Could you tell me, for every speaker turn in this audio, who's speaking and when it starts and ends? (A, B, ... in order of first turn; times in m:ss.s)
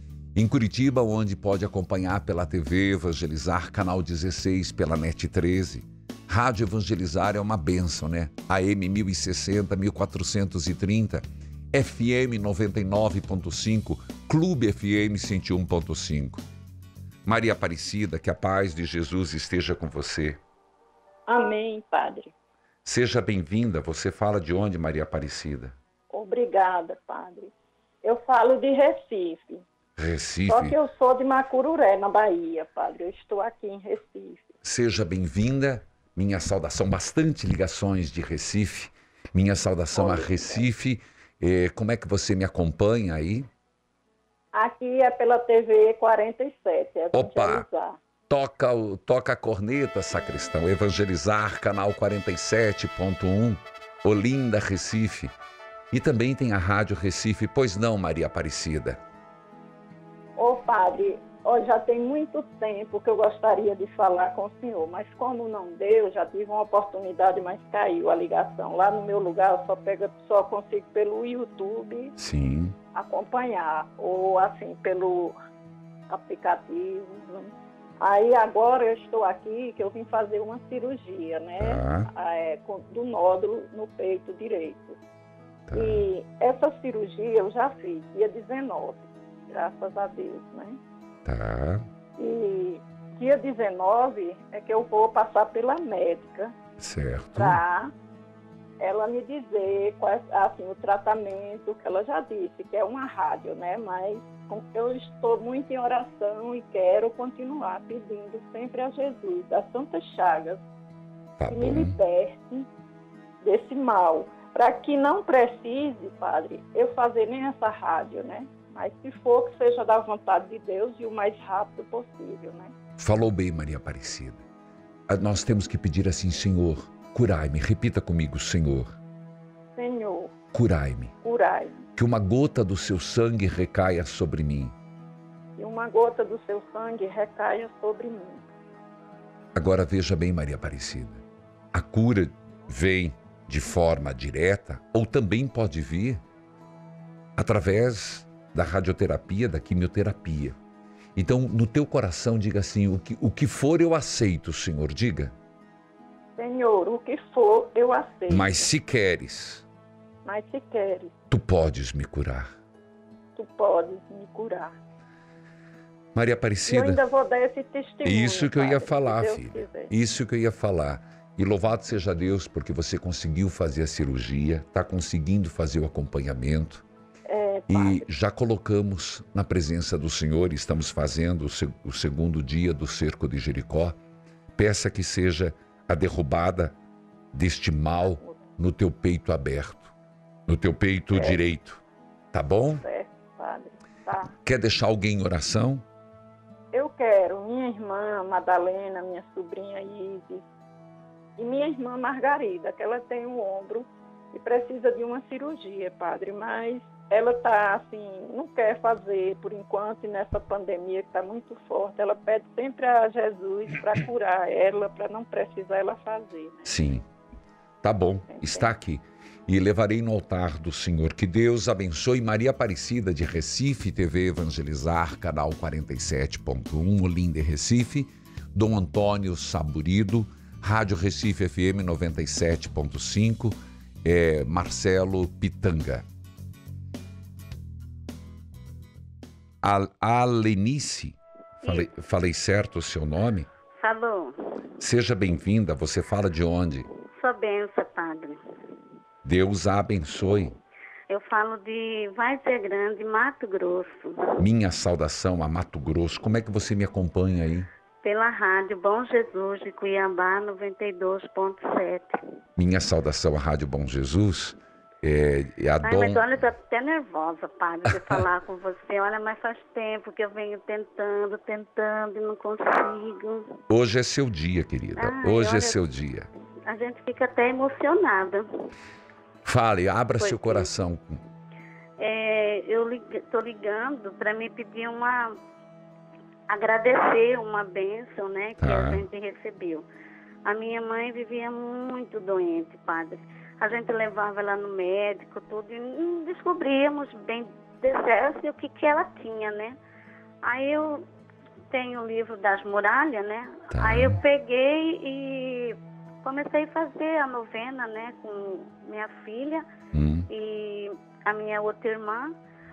0:00.4-0:16.4 A
0:17.3-0:20.4 A
0:21.3-0:22.3 B
0:22.8-0:25.7 A
0:26.1-0:27.5 B
0:28.0-0:29.6 B
0:30.0-0:30.8 A
0:30.5-0:34.5 B
0:34.6-0:43.5 A
0:39.9-0:40.7 B
0:44.5-0:48.0 B
0:47.1-0:47.6 A
0:48.3-0:55.3 A
0:55.9-0:59.0 A
1:00.4-1:12.2 B
1:12.2-1:12.8 A
1:12.9-1:15.4 B
1:16.1-1:25.0 B
1:21.6-1:22.1 A
1:25.7-1:26.1 A
1:25.7-1:30.8 B
1:31.2-1:31.9 A
1:32.2-1:36.6 B
1:36.8-1:37.6 A
1:37.4-1:37.9 B
1:38.8-1:50.6 B
1:51.4-1:52.0 A
1:51.5-1:52.7 B
1:53.4-2:02.7 B
2:03.0-2:04.4 A
2:05.1-2:09.0 A
2:09.8-2:10.3 B
2:10.5-2:11.1 A
2:11.2-2:11.8 B
2:12.0-2:14.8 A
2:15.6-2:18.4 B
2:19.6-2:26.2 A
2:27.4-2:30.6 A
2:31.2-2:35.3 A
2:36.4-2:38.6 B
2:38.3-2:39.7 A
2:40.2-2:41.1 B
2:41.3-2:42.5 A
2:43.4-2:44.7 B
2:46.2-2:47.0 A
2:46.7-2:49.9 B
2:48.0-2:56.8 A
2:57.3-2:58.1 B
2:57.7-3:04.0 A
3:04.6-3:06.8 A
3:07.3-3:09.9 A
3:10.5-3:11.8 A
3:11.1-3:11.4 B
3:12.3-3:12.8 A
3:12.8-3:14.3 B
3:14.4-3:15.8 A
3:16.7-3:20.5 B
3:21.4-3:36.6 B
3:36.6-3:37.0 A
3:37.8-3:56.0 A
3:38.3-3:38.7 B
3:59.6-4:03.5 A
4:01.6-4:01.9 C
4:03.8-4:04.7 C
4:04.8-4:06.9 A
4:07.0-4:08.4 C
4:09.2-4:10.6 A
4:11.1-4:14.4 C
4:14.4-4:17.7 A
4:18.0-4:22.2 C
4:22.6-4:26.2 A
4:25.8-4:33.6 C
4:27.9-4:28.2 A
4:33.7-4:36.3 A
4:35.0-4:35.8 C
4:36.6-4:38.7 C
4:39.4-4:41.2 A
4:40.2-4:40.7 C
4:42.0-4:45.4 C
4:46.5-4:49.9 C
4:48.6-4:49.0 A
4:50.4-4:59.8 C
5:00.4-5:01.1 C
5:01.7-5:09.7 C
5:03.7-5:04.2 A
5:09.9-5:10.3 A
5:10.3-5:12.4 C